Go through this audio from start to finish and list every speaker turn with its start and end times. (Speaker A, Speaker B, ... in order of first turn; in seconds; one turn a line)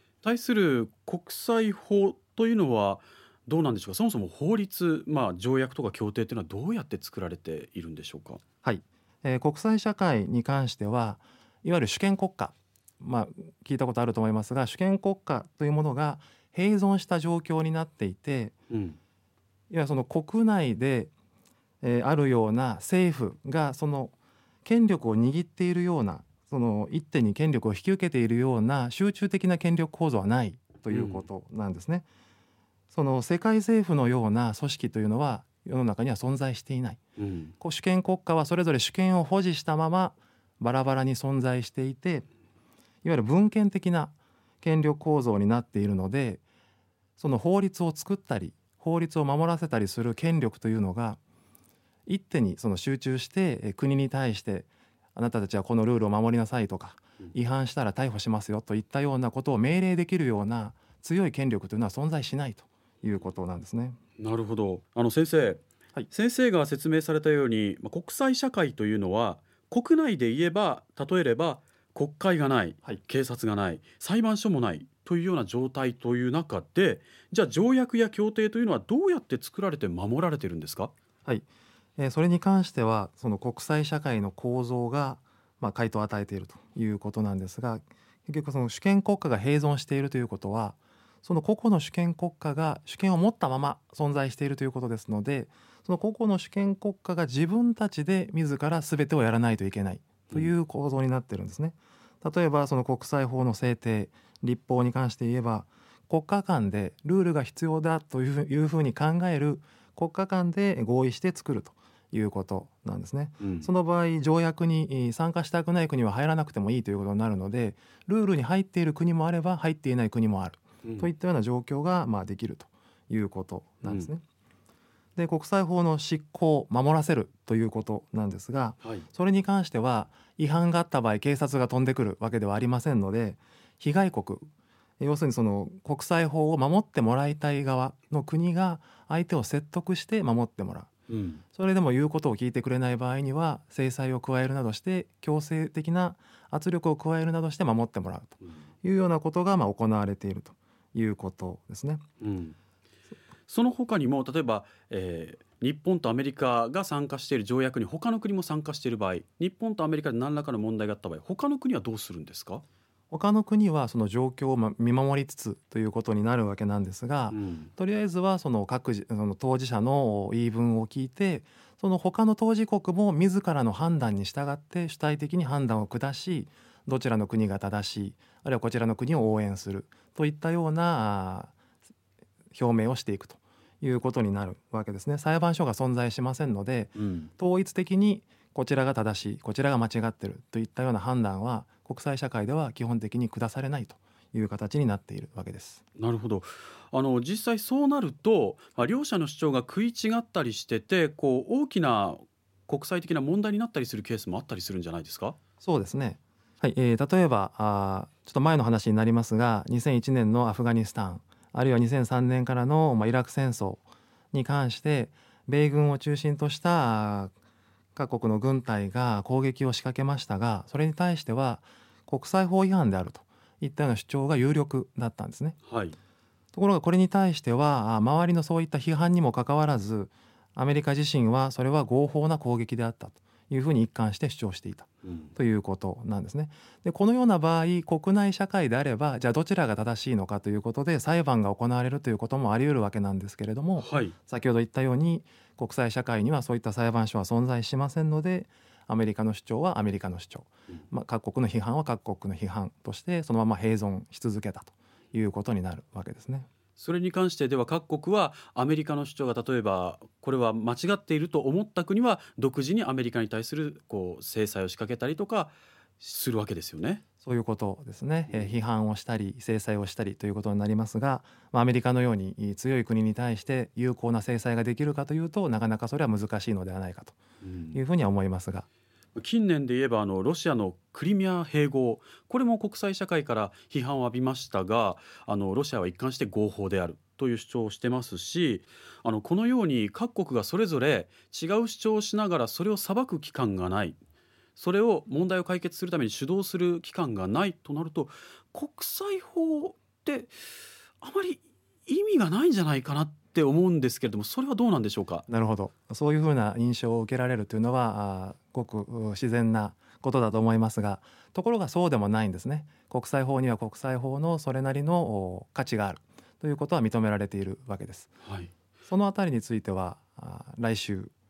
Speaker A: 0.2-8.4
Speaker B: 8.6-18.5
Speaker A: 18.7-19.0
Speaker B: 19.7-21.1
Speaker B: 21.8-24.1
Speaker B: 24.6-32.1
Speaker A: 30.9-31.2
Speaker B: 32.9-37.0
Speaker A: 37.2-37.5
Speaker B: 37.6-42.2
Speaker B: 43.0-46.4
Speaker B: 47.2-51.2
Speaker B: 52.1-64.0
Speaker A: 64.2-80.9
Speaker B: 82.0-124.2
Speaker A: 113.4-113.7
Speaker A: 120.8-121.1
Speaker A: 123.8-124.1
Speaker B: 125.2-134.5
Speaker B: 135.0-140.9
Speaker A: 141.1-141.4
Speaker B: 141.6-152.0
Speaker A: 152.2-152.6
Speaker A: 153.5-162.6
Speaker B: 163.1-181.5
Speaker A: 167.3-167.7
Speaker B: 182.5-195.8
Speaker A: 186.9-187.3
Speaker A: 196.0-205.4
Speaker B: 205.6-217.3
Speaker B: 217.9-225.6
Speaker A: 225.7-225.9
Speaker B: 226.5-256.5
Speaker A: 235.1-235.3
Speaker A: 243.8-244.2
Speaker A: 256.8-267.0
Speaker B: 267.2-277.2
Speaker A: 277.4-277.8
Speaker B: 277.7-278.7
Speaker A: 279.2-294.0
Speaker A: 294.6-300.3
Speaker A: 301.0-305.2
Speaker B: 305.3-318.1
Speaker A: 318.2-318.5
Speaker B: 318.9-321.1